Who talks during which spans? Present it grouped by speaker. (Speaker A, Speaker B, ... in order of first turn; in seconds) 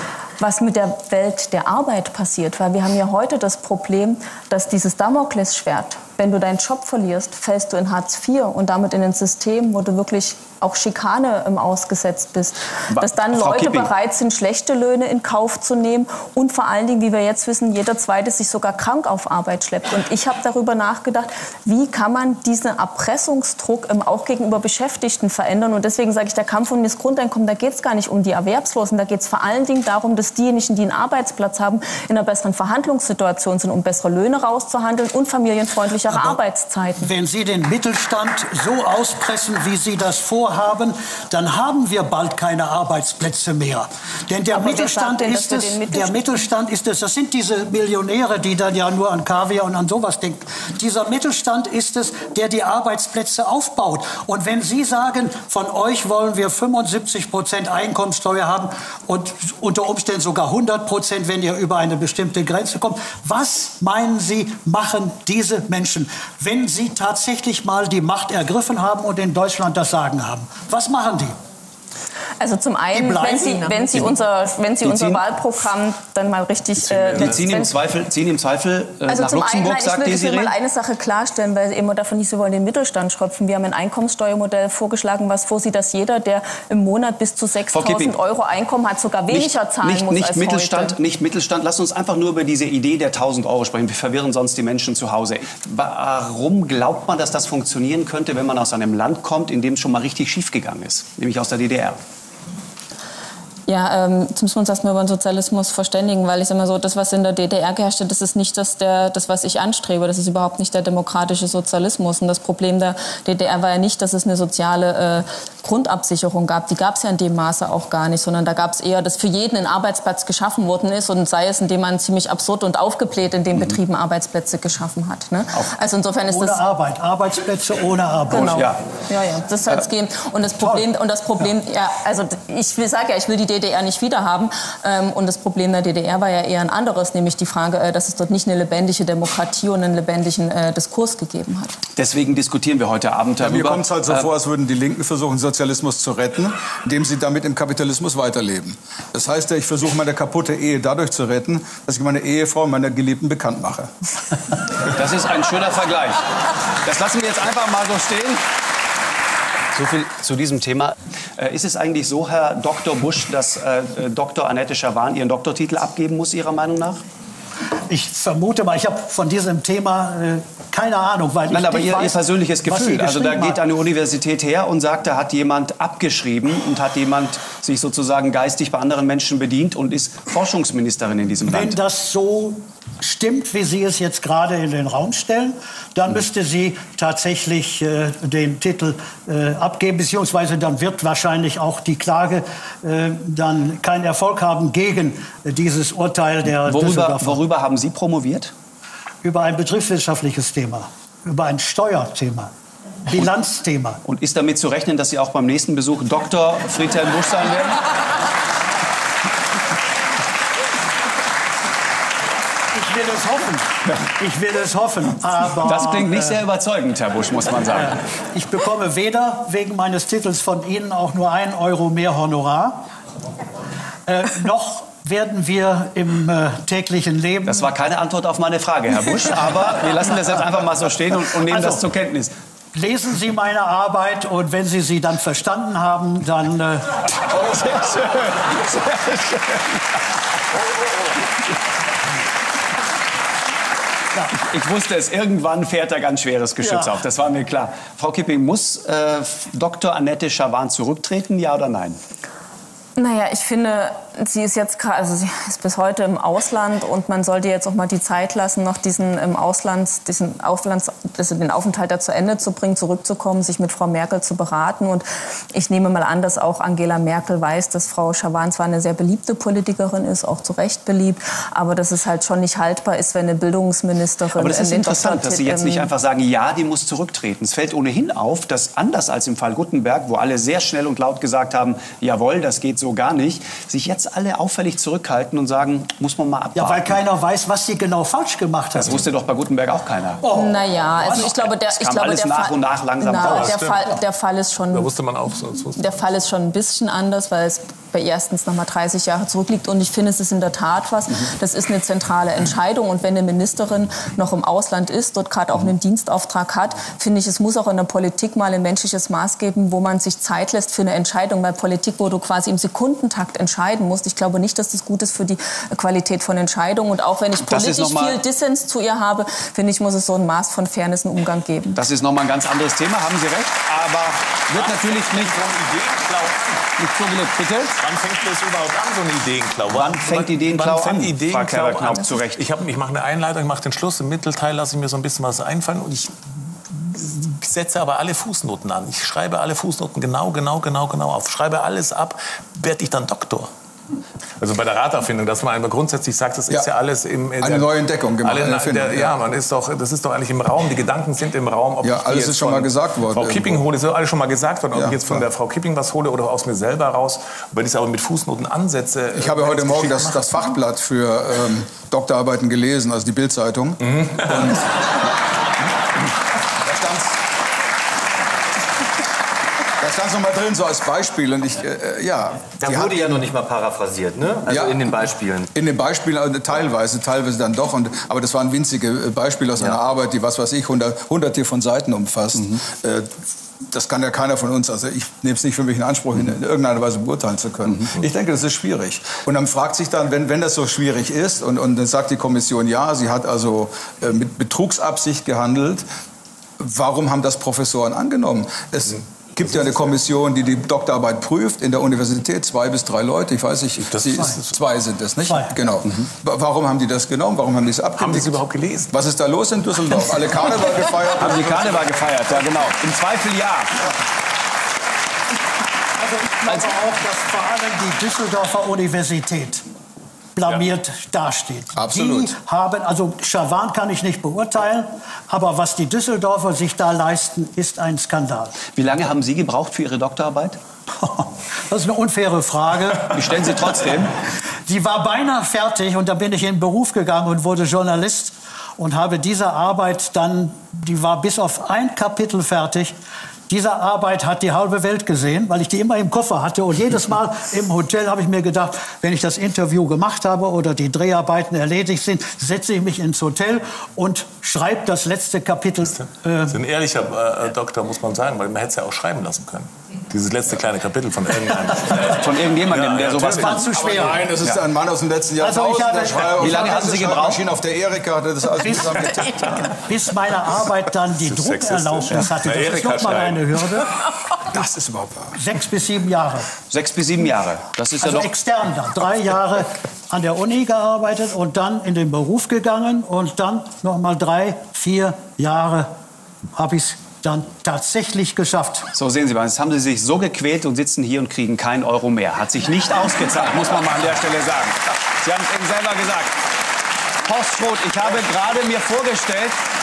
Speaker A: 0.4-37.1, 44.5-46.4, 72.4-77.7, 79.1-91.0, 103.7-126.6, 128.3-141.8, 253.0-275.9, 290.3-294.9, 295.8-321.8
Speaker B: 12.9-13.9, 77.1-80.5, 87.7-88.1, 89.3-102.0, 128.3-128.8, 141.9-144.3, 154.9-158.4, 159.7-167.0, 171.5-181.8, 196.6-198.5, 204.0-207.8, 215.6-218.0, 227.4-232.3, 237.3-239.8, 244.3-252.0, 274.4-286.9, 288.8-290.2, 291.1-293.6, 317.4-318.2, 321.7-325.4, 326.8-327.8, 329.7-332.4, 411.1-413.7, 428.7-430.6, 433.1-434.1, 462.0-464.3, 466.4-467.4, 476.7-478.3, 488.9-496.4, 497.2-499.6
Speaker C: 37.0-71.3, 72.9-74.0, 126.3-128.7, 130.6-130.8, 167.9-173.6, 181.5-197.4, 199.2-202.5, 203.1-204.0, 212.7-216.4, 217.8-222.8, 224.1-227.7, 231.4-231.8, 232.7-237.5, 286.6-289.0, 290.2-291.3, 416.0-419.6, 420.4-428.6, 431.0-433.5, 434.7-442.9, 443.5-456.6, 463.2-464.3, 465.4-466.4, 468.5-474.0, 475.3-476.5, 478.0-485.9, 486.5-488.9
Speaker D: 76.8-77.4, 293.2-293.9, 294.7-296.0, 324.6-326.6, 327.8-336.1, 336.7-343.5, 344.4-360.4, 363.8-364.6, 403.9-404.4, 408.0-408.9, 456.4-463.7, 471.2-473.6
Speaker E: 143.4-153.9, 347.4-349.1, 351.8-353.6, 354.7-355.2, 359.1-365.1, 366.6-367.2, 369.8-373.2, 374.4-374.8, 375.5-395.8, 396.6-408.4, 408.9-411.7, 421.8-422.3, 463.8-469.5, 474.5-475.3
Speaker F: 372.6-375.5